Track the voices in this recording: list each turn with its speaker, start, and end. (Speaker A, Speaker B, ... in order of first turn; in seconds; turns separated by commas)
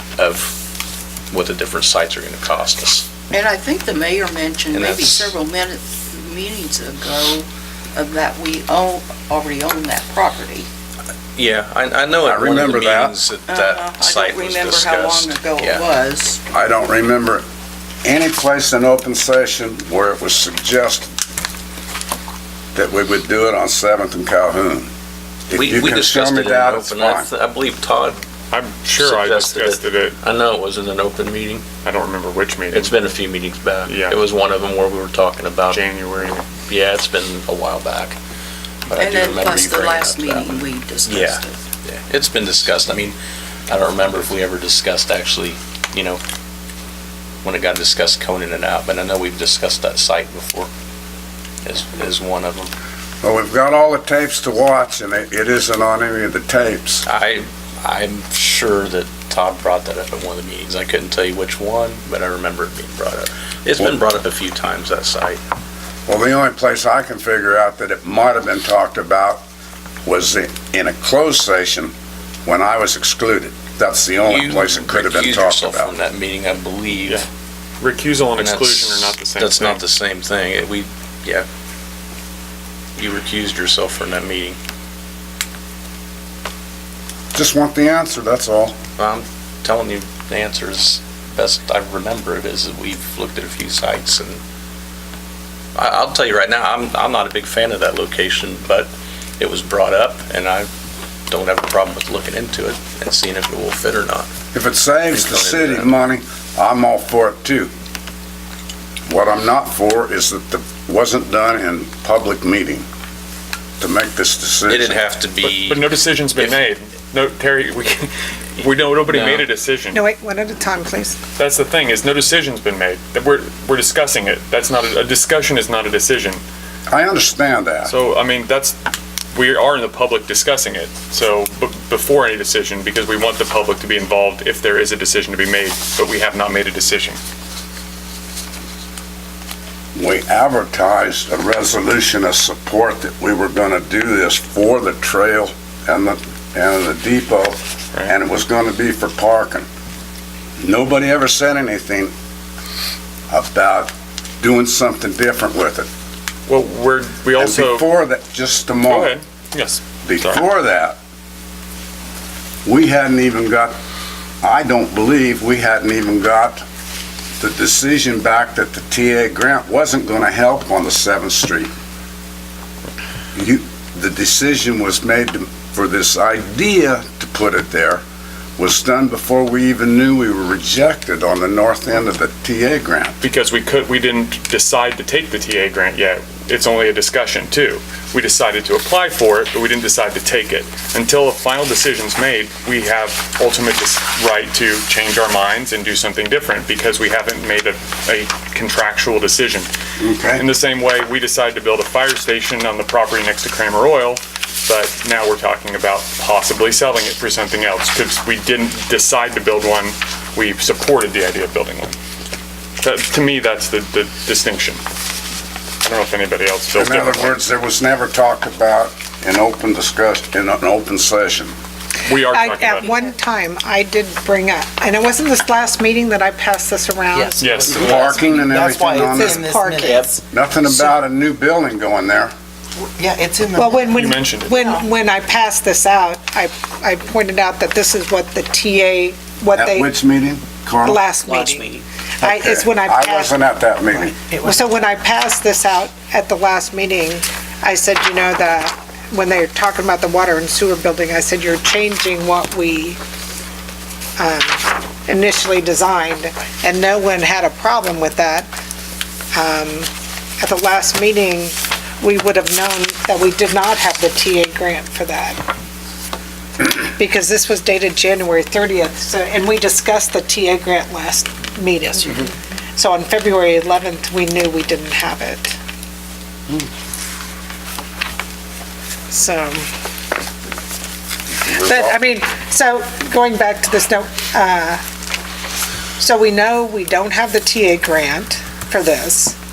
Speaker A: 0.2-0.6, Speaker A: 1.3-3.1, Speaker B: 3.3-10.7, Speaker A: 4.7-5.4, Speaker A: 11.3-15.8, Speaker C: 12.2-13.2, Speaker B: 13.5-16.4, Speaker C: 16.5-17.4, Speaker C: 18.0-21.1, Speaker C: 22.7-24.9, Speaker C: 25.5-27.3, Speaker A: 25.5-28.2, Speaker D: 28.5-30.2, Speaker A: 28.9-31.7, Speaker D: 31.8-33.0, Speaker A: 32.7-35.8, Speaker D: 33.9-34.2, Speaker D: 35.7-36.5, Speaker A: 36.7-38.2, Speaker A: 38.9-43.2, Speaker B: 39.0-41.6, Speaker A: 43.7-46.2, Speaker A: 47.4-50.7, Speaker A: 51.6-52.7, Speaker C: 53.2-57.1, Speaker A: 57.1-65.4, Speaker C: 66.1-69.4, Speaker C: 70.0-71.9, Speaker C: 72.5-75.9, Speaker A: 74.3-77.2, Speaker D: 77.8-79.8, Speaker A: 78.4-81.5, Speaker A: 83.0-84.6, Speaker C: 87.3-88.8, Speaker A: 89.0-94.4, Speaker A: 95.8-100.7, Speaker A: 101.3-104.3, Speaker C: 104.5-107.7, Speaker A: 105.1-105.9, Speaker C: 109.1-112.9, Speaker C: 113.8-115.0, Speaker A: 114.7-115.8, Speaker D: 115.4-120.0, Speaker A: 119.1-119.5, Speaker E: 119.9-121.2, Speaker D: 121.4-126.4, Speaker C: 126.9-127.9, Speaker D: 127.8-128.8, Speaker D: 129.3-137.2, Speaker C: 139.9-149.7, Speaker C: 150.6-152.1, Speaker C: 153.3-155.9, Speaker D: 156.5-157.8, Speaker C: 157.4-159.2, Speaker D: 158.9-160.4, Speaker C: 160.1-161.0, Speaker C: 162.7-163.8, Speaker C: 164.4-166.6, Speaker C: 167.4-171.7, Speaker C: 173.3-178.0, Speaker C: 178.6-183.2, Speaker D: 183.2-199.7, Speaker C: 200.0-200.5, Speaker D: 200.4-211.9, Speaker D: 212.8-214.8, Speaker D: 215.8-217.3, Speaker C: 216.7-221.6, Speaker D: 222.0-223.0, Speaker E: 222.2-227.6, Speaker F: 227.2-230.2, Speaker D: 227.4-227.8, Speaker C: 227.7-229.7, Speaker E: 229.0-230.1, Speaker C: 230.3-232.3, Speaker F: 233.0-233.9, Speaker E: 233.5-239.9, Speaker D: 233.9-234.6, Speaker C: 239.6-241.1, Speaker E: 240.8-243.4, Speaker C: 242.2-244.2, Speaker E: 244.4-253.0, Speaker E: 254.2-258.5, Speaker E: 259.3-265.4, Speaker E: 266.6-275.6, Speaker E: 279.1-279.7, Speaker C: 281.4-282.0, Speaker E: 281.6-284.8, Speaker E: 286.0-289.4